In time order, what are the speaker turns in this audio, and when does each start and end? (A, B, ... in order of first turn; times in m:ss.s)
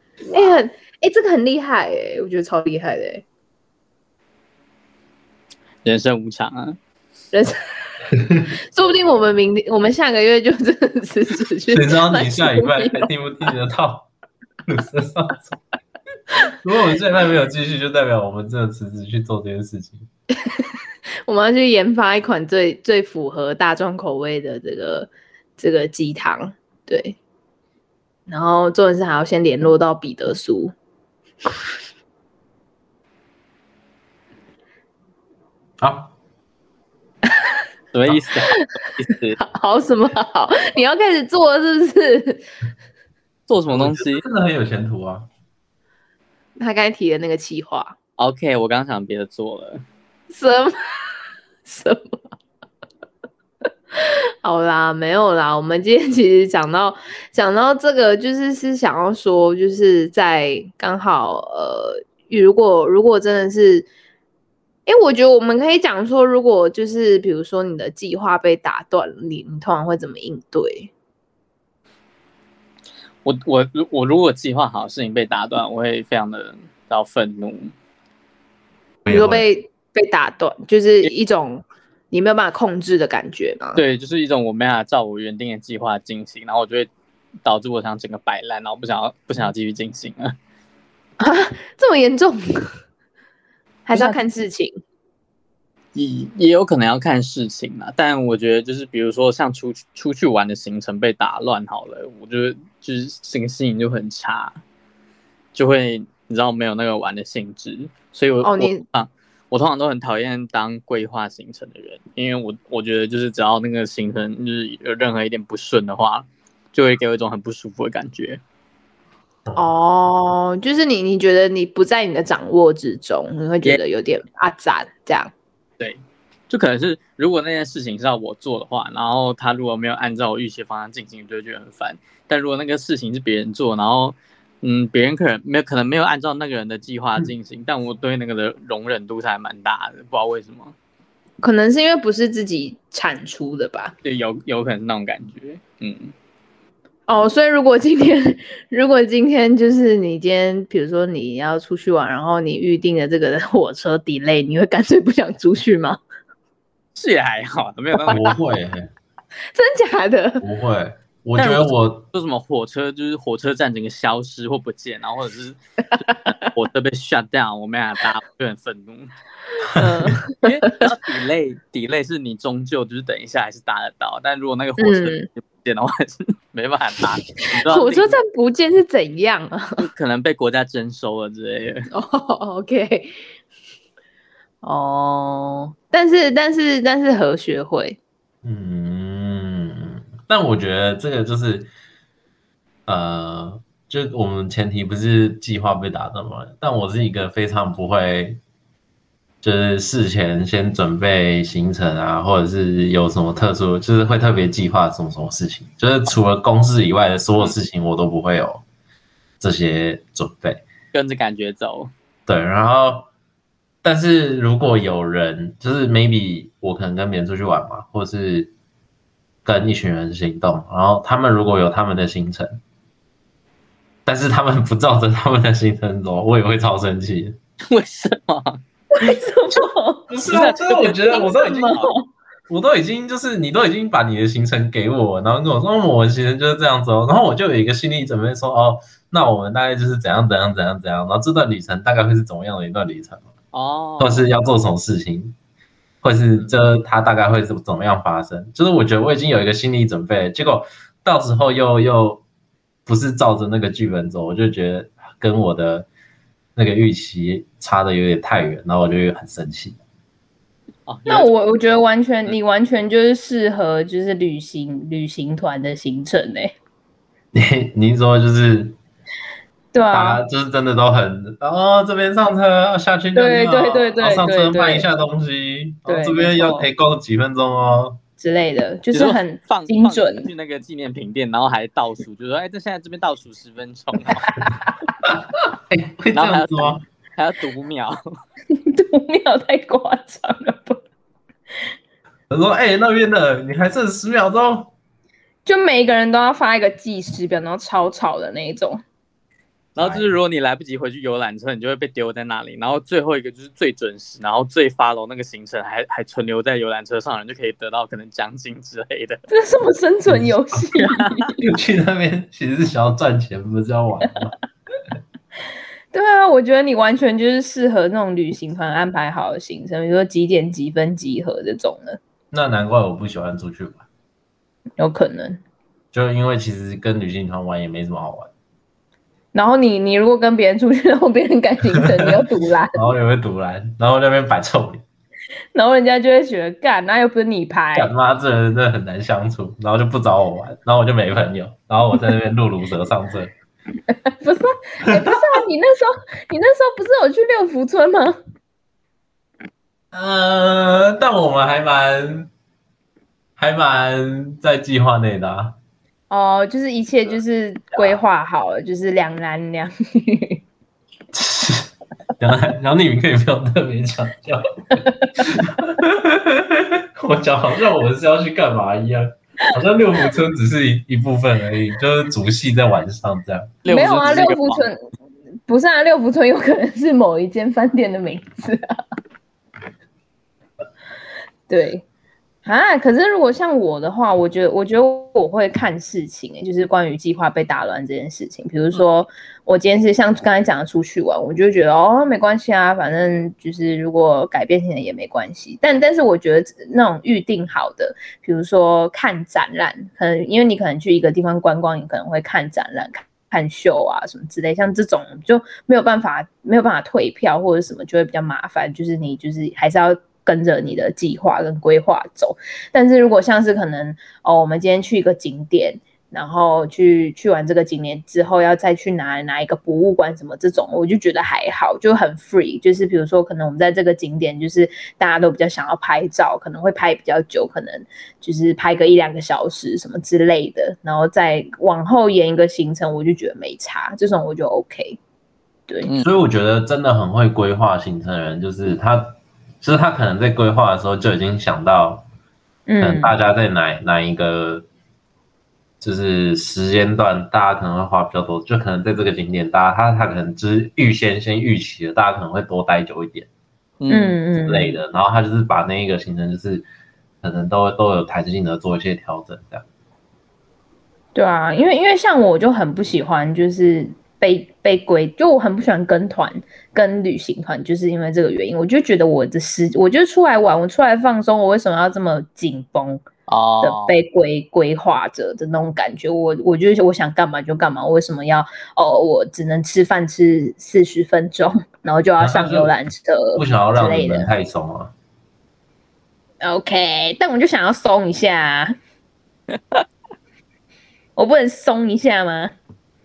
0:00.3-0:03.2 A
0:05.8-0:06.8 B
0:08.2-0:08.5 C
0:08.5-0:13.1 A
0:11.7-0:14.1 C
0:14.7-0:15.6 C
0:16.6-0:20.1 C
0:21.3-0:27.2 A
0:28.3-0:30.7 A
0:35.8-0:36.1 C
0:37.9-0:39.4 B
0:39.4-0:42.4 A
0:43.5-0:44.2 B
0:43.7-0:45.3 C
0:46.6-0:48.0 A
0:48.2-0:49.8 B
0:50.3-0:50.8 A
0:51.6-0:52.2 A
0:54.4-1:03.9 A
1:04.9-1:10.9 A
1:13.2-1:17.7 B
1:19.0-1:19.4 C
1:19.1-1:23.8 A
1:23.8-1:26.9 B
1:27.4-1:30.4 B
1:31.2-1:32.7 A
1:33.9-1:34.8 A
1:33.9-1:34.2 B
1:36.0-1:44.6 B
1:45.5-1:58.4 B
1:48.4-1:48.8 A
1:59.6-2:05.3 A
2:05.8-2:20.8 B
2:21.4-2:23.9 A
2:24.0-2:26.1 B
2:27.1-2:36.0 A
2:37.0-2:38.4 B
2:38.1-2:38.9 C
2:39.5-2:40.4 A
2:40.4-2:42.0 C
2:41.4-2:49.1 B
2:46.0-2:46.5 A
2:49.7-2:50.9 A
2:50.4-2:58.2 B
2:54.8-2:55.3 A
2:57.4-2:59.8 A
2:59.8-3:01.9 B
3:01.9-3:03.1 A
3:04.6-3:08.0 A
3:08.4-3:11.7 C
3:12.9-3:18.4 C
3:19.4-3:28.6 C
3:29.4-3:30.6 C
3:30.9-3:31.9 B
3:32.3-3:33.1 C
3:33.8-3:38.5 C
3:39.4-3:42.6 C
3:44.1-3:47.4 C
3:47.7-3:48.6 B
3:48.9-3:50.1 A
3:50.1-3:51.9 C
3:50.3-3:51.7 B
3:51.1-3:52.1 A
3:52.5-4:03.3 C
4:03.5-4:04.3 B
4:04.0-4:05.4 C
4:06.0-4:12.2 C
4:12.9-4:15.9 C
4:16.6-4:19.8 C
4:20.9-4:21.3 B
4:21.1-4:26.6 A
4:27.3-4:28.8 C
4:29.7-4:30.2 A
4:29.9-4:38.0 C
4:33.2-4:34.9 A
4:35.9-4:36.7 A
4:38.2-4:40.3 A
4:38.9-4:44.4 B
4:44.3-4:44.7 A
4:45.7-4:46.8 C
4:46.1-4:48.0 B
4:48.7-4:50.8 A
4:52.3-4:54.7 C
4:55.4-4:58.8 A
4:59.8-5:09.2 B
4:59.8-5:00.2 C
5:09.3-5:11.4 A
5:10.1-5:10.4 C
5:10.8-5:11.3 B
5:11.4-5:14.4 C
5:15.9-5:22.0 A
5:22.3-5:23.8 C
5:24.8-5:25.4 A
5:25.9-5:28.3 C
5:29.3-5:32.8 A
5:32.7-5:34.8 C
5:35.5-5:37.9 A
5:37.8-5:43.3 C
5:43.9-5:48.2 A
5:44.9-5:45.2 C
5:49.9-5:52.3 C
5:53.4-5:55.6 C
5:56.1-6:00.4 A
6:01.1-6:13.6 C
6:04.8-6:05.3 A
6:13.6-6:14.7 B
6:13.7-6:14.8 A
6:15.5-6:18.8 A
6:21.5-6:21.8 A
6:22.4-7:15.0 A
7:16.0-7:22.1 C
7:22.7-7:23.2 A
7:22.8-7:24.7 C
7:25.8-7:33.3 C
7:33.8-7:34.2 B
7:33.9-7:34.8 A
7:34.4-7:36.7 C
7:37.2-7:39.6 C
7:41.2-7:53.0 A
7:53.3-7:54.0 B
7:53.6-8:04.3 A
8:02.2-8:02.7 C
8:03.4-8:04.9 C
8:06.4-8:08.7 A
8:09.6-8:09.8 B
8:11.2-8:12.5 A